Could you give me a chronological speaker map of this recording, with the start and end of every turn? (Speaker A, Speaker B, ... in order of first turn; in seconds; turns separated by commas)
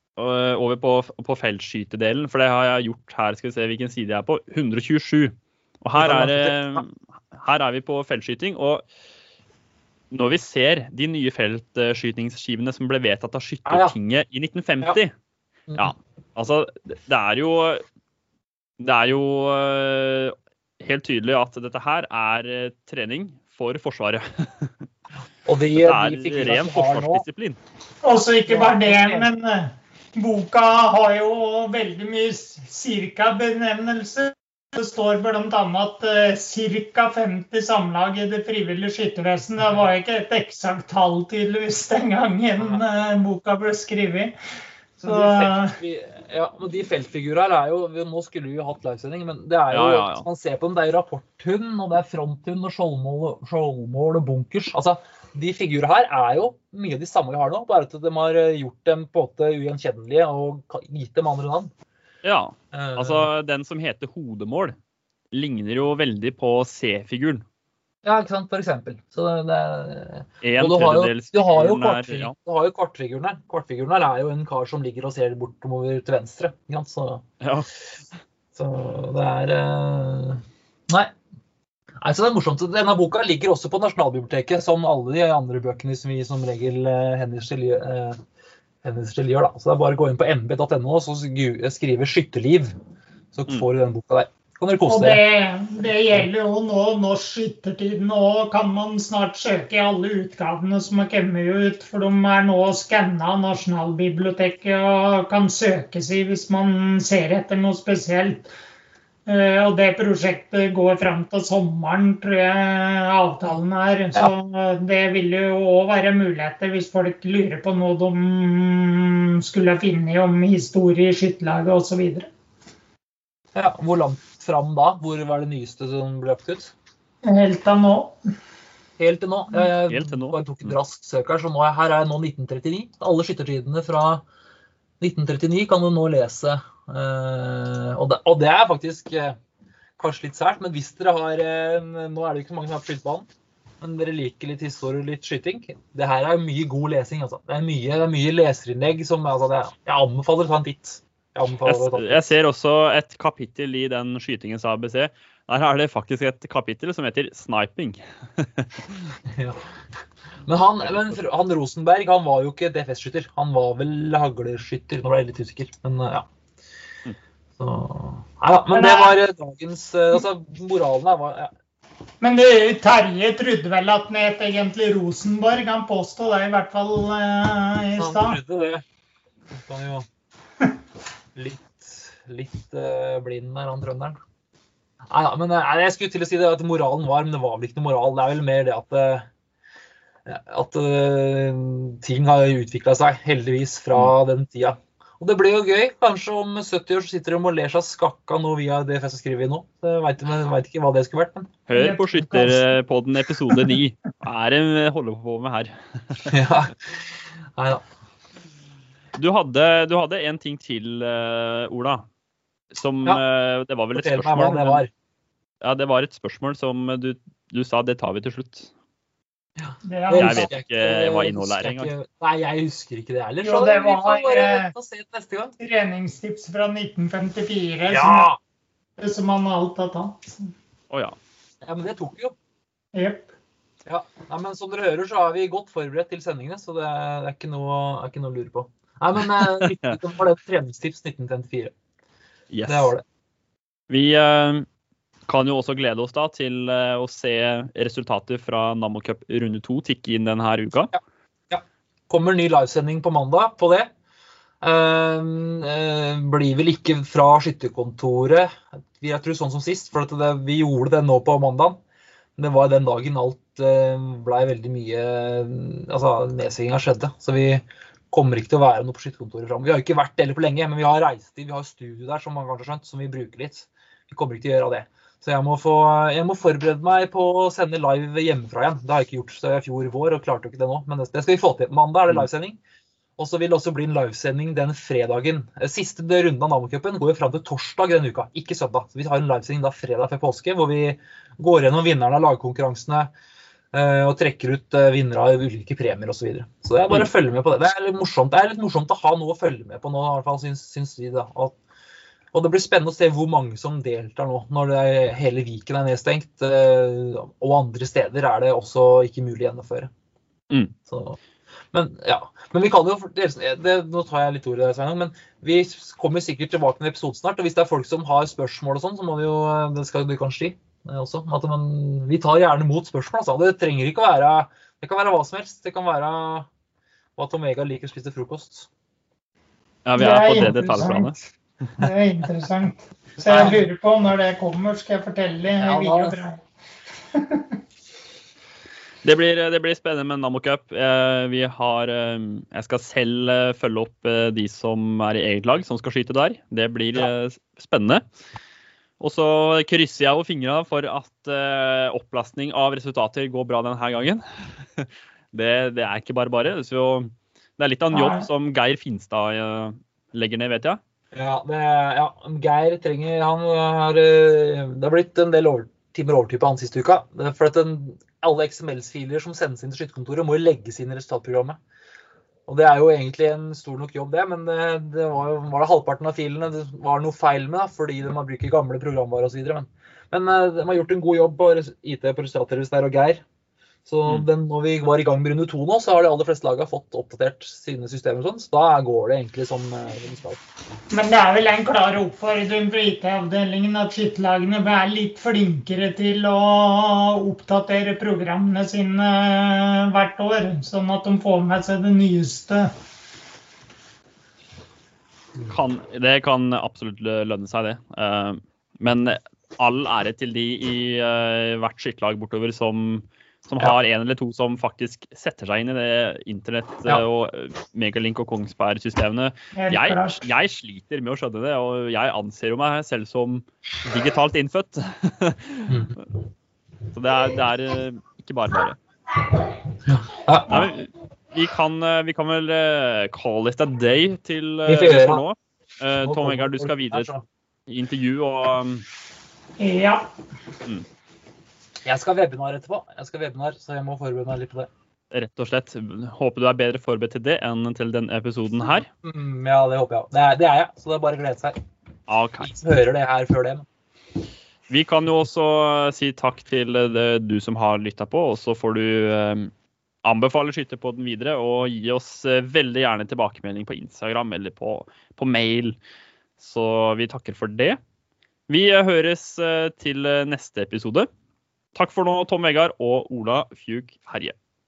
Speaker A: 0.2-8.8, Speaker B: 6.0-6.8, Speaker A: 10.1-15.1, Speaker B: 13.7-14.0, Speaker B: 15.7-15.9, Speaker A: 15.8-17.8, Speaker A: 18.8-24.7, Speaker B: 25.5-27.2, Speaker A: 25.8-27.6, Speaker C: 28.0-44.4, Speaker B: 28.5-29.3, Speaker C: 45.0-45.8, Speaker B: 45.0-61.7, Speaker A: 49.7-50.3, Speaker A: 62.2-64.8, Speaker B: 62.7-63.3, Speaker A: 65.3-67.4, Speaker B: 68.0-77.2, Speaker A: 70.4-72.3, Speaker A: 77.4-77.7, Speaker B: 78.5-81.1, Speaker B: 82.0-88.2, Speaker B: 88.8-92.7, Speaker B: 93.3-95.2, Speaker C: 94.9-108.5, Speaker C: 109.3-122.3, Speaker B: 123.5-126.7, Speaker C: 127.2-128.2, Speaker B: 129.0-134.2, Speaker A: 129.9-130.7, Speaker B: 135.0-139.4, Speaker B: 140.0-143.3, Speaker B: 143.8-152.4, Speaker A: 151.7-159.2, Speaker B: 159.3-159.6, Speaker B: 160.5-166.3, Speaker A: 160.9-161.2, Speaker B: 167.6-171.5, Speaker C: 168.7-169.2, Speaker C: 172.2-178.4, Speaker B: 178.0-178.8, Speaker B: 179.6-180.1, Speaker B: 181.3-184.2, Speaker B: 185.1-189.3, Speaker B: 190.3-201.6, Speaker A: 201.7-206.4, Speaker C: 201.7-202.7, Speaker C: 203.5-203.8, Speaker B: 206.2-207.8, Speaker A: 209.2-212.1, Speaker A: 212.7-214.8, Speaker B: 213.9-214.9, Speaker A: 215.6-218.7, Speaker B: 219.6-225.6, Speaker C: 219.8-220.5, Speaker A: 220.1-221.9, Speaker C: 223.4-224.7, Speaker C: 225.6-228.3, Speaker B: 227.9-228.4, Speaker C: 229.0-230.5, Speaker A: 230.9-231.2, Speaker B: 231.6-232.3, Speaker C: 232.9-233.3, Speaker B: 233.8-241.7, Speaker A: 239.3-240.0, Speaker A: 242.5-242.9, Speaker B: 242.7-243.0, Speaker A: 243.9-244.7, Speaker A: 245.3-250.9, Speaker B: 251.5-253.9, Speaker B: 254.6-261.8, Speaker B: 262.4-282.6, Speaker B: 283.2-293.1, Speaker B: 293.7-301.6, Speaker B: 302.3-309.9, Speaker B: 310.9-311.2, Speaker B: 311.7-326.5, Speaker B: 327.2-328.7, Speaker A: 329.9-331.2, Speaker C: 330.0-336.4, Speaker B: 330.4-330.9, Speaker B: 333.2-333.6, Speaker B: 335.6-336.2, Speaker C: 337.1-337.5, Speaker A: 339.0-348.0, Speaker A: 349.0-360.8, Speaker C: 357.9-358.3, Speaker B: 361.1-371.6, Speaker B: 372.5-383.2, Speaker B: 383.9-390.4, Speaker C: 390.9-402.7, Speaker A: 405.5-425.8, Speaker C: 419.6-420.2, Speaker B: 425.7-426.0, Speaker A: 426.9-428.8, Speaker B: 429.9-430.7, Speaker A: 430.5-437.1, Speaker B: 434.6-435.2, Speaker B: 436.0-437.2, Speaker A: 437.7-438.9, Speaker C: 439.6-440.1, Speaker B: 441.9-444.7, Speaker A: 445.1-448.9, Speaker B: 449.0-451.6, Speaker A: 452.1-452.5, Speaker B: 452.4-453.7, Speaker A: 454.7-459.5, Speaker A: 460.0-465.8, Speaker A: 466.4-467.8, Speaker A: 468.5-471.1, Speaker A: 471.8-474.4